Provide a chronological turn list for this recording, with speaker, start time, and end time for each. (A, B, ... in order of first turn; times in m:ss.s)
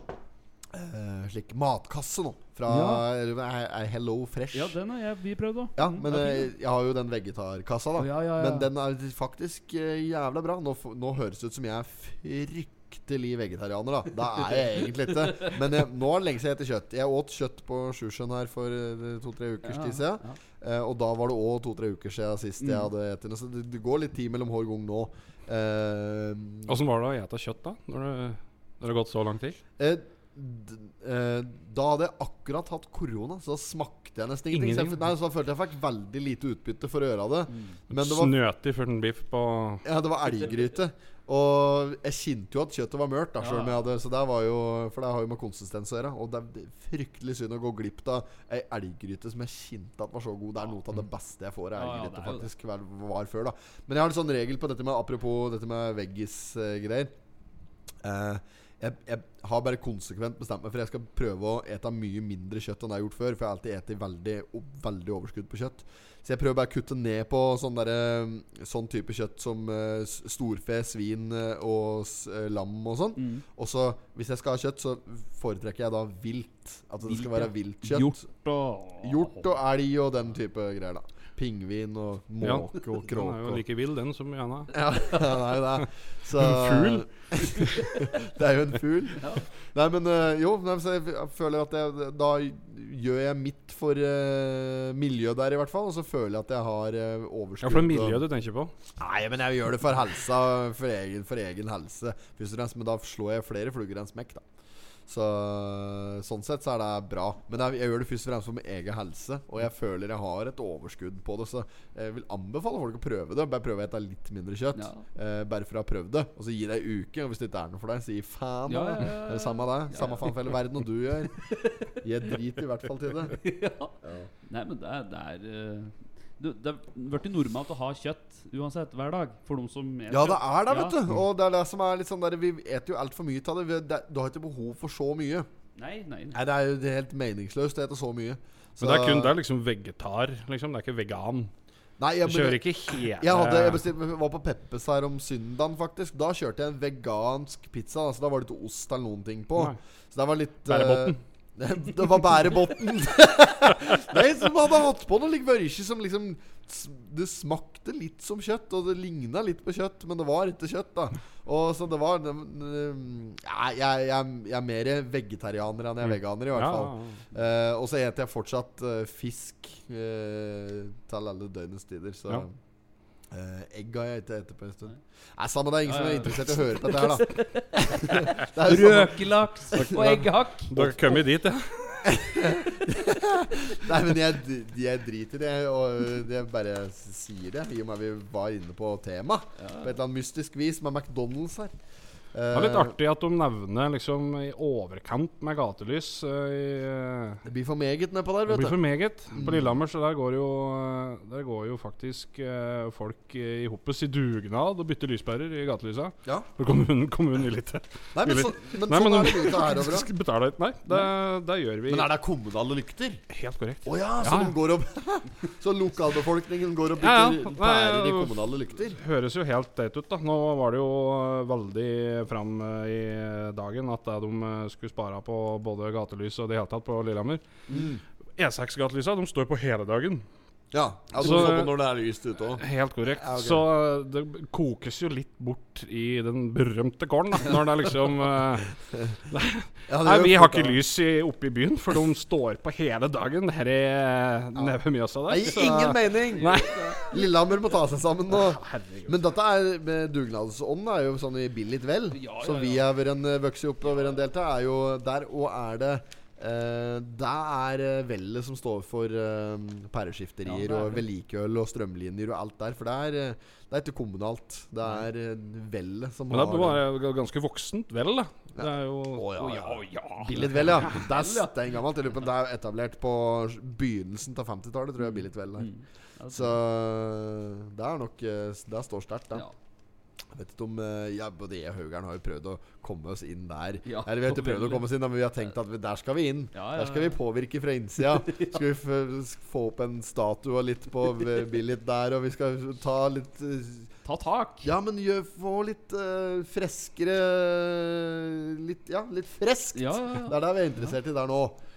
0:00.7-0:04.8 A
0:02.7-0:03.0 B
0:04.5-0:06.5 B
0:05.8-0:26.7 A
0:08.0-0:08.7 B
0:19.6-0:20.4 B
0:22.6-0:22.9 B
0:26.7-0:29.6 C
0:29.8-0:38.4 A
0:34.5-0:35.0 C
0:37.9-0:39.8 C
0:39.8-0:57.1 A
0:43.4-0:43.8 B
0:51.8-0:52.5 B
0:58.0-1:18.2 A
1:13.2-1:13.4 B
1:17.0-1:19.5 B
1:19.0-1:23.6 A
1:22.4-1:24.8 C
1:24.7-1:38.2 A
1:26.4-1:27.8 C
1:37.6-1:38.7 C
1:39.0-1:44.4 A
1:45.1-2:03.4 A
1:54.8-1:55.0 B
1:58.7-2:00.6 B
2:01.4-2:02.0 B
2:03.3-2:04.0 B
2:04.0-2:04.3 A
2:04.5-2:11.0 B
2:10.1-2:15.5 A
2:15.8-2:16.4 B
2:16.3-2:19.3 A
2:18.8-2:21.5 C
2:22.0-2:52.6 A
2:22.2-2:23.8 C
2:30.7-2:31.2 C
2:46.0-2:47.2 C
2:53.3-3:00.2 A
2:55.9-3:01.1 B
2:59.7-3:02.0 C
3:02.0-3:11.7 A
3:09.6-3:09.9 B
3:12.3-3:13.0 A
3:12.5-3:17.4 C
3:17.4-3:18.8 A
3:18.5-3:32.1 C
3:19.3-3:19.7 A
3:28.2-3:30.1 A
3:31.9-3:33.2 A
3:33.3-3:34.6 C
3:33.8-3:39.0 A
3:37.0-3:47.4 C
3:47.7-3:48.0 A
3:48.4-3:50.2 C
3:50.7-3:52.6 A
3:51.2-3:51.8 C
3:52.6-3:58.7 C
3:53.2-3:53.7 A
3:59.3-4:07.0 C
3:59.9-4:00.8 A
4:05.3-4:26.8 A
4:06.3-4:07.2 B
4:08.3-4:09.2 C
4:12.1-4:12.9 B
4:13.8-4:14.2 B
4:20.4-4:21.0 B
4:26.3-4:29.4 C
4:28.6-4:35.7 A
4:29.4-4:31.6 B
4:35.0-4:36.6 B
4:36.3-4:39.4 A
4:40.4-4:53.9 A
4:43.8-4:44.9 B
4:46.5-4:47.2 B
4:48.2-4:48.6 B
4:54.0-4:54.7 B
4:54.6-5:01.6 A
4:59.8-5:01.0 B